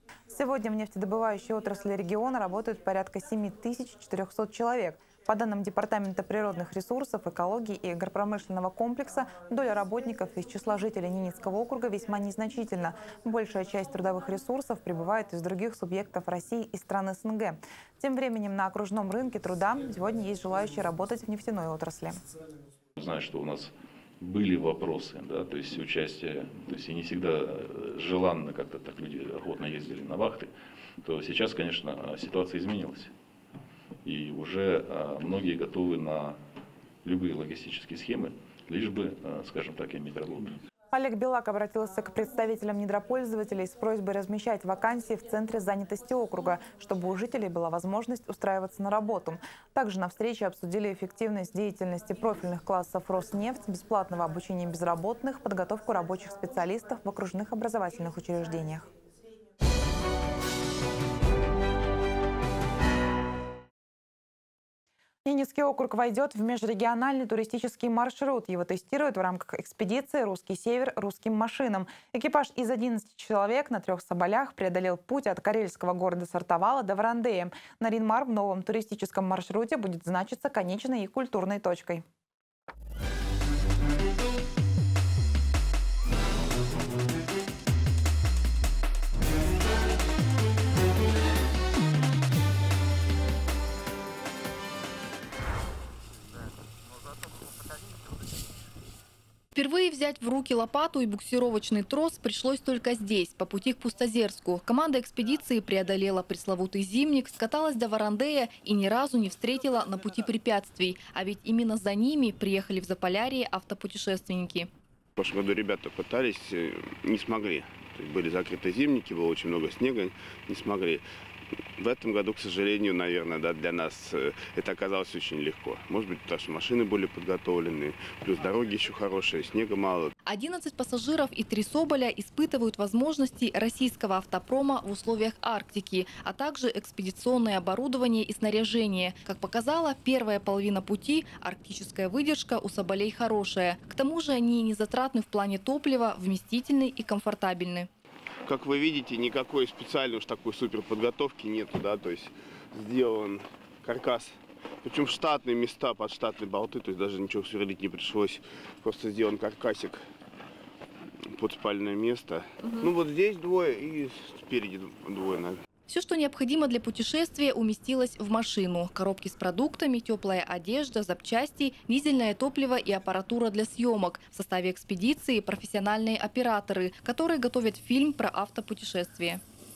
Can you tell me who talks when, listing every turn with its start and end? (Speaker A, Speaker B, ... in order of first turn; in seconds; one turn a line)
Speaker A: 0.3-22.2
Speaker B: 23.0-33.1
Speaker B: 34.0-36.4
Speaker B: 37.0-40.6
Speaker A: 40.9-58.9
Speaker A: 65.2-82.0
Speaker C: 99.5-114.7
Speaker D: 115.2-121.0
Speaker D: 121.8-130.1
Speaker C: 130.2-147.9
Speaker D: 148.5-160.0
Speaker D: 161.3-165.6
Speaker C: 165.9-179.4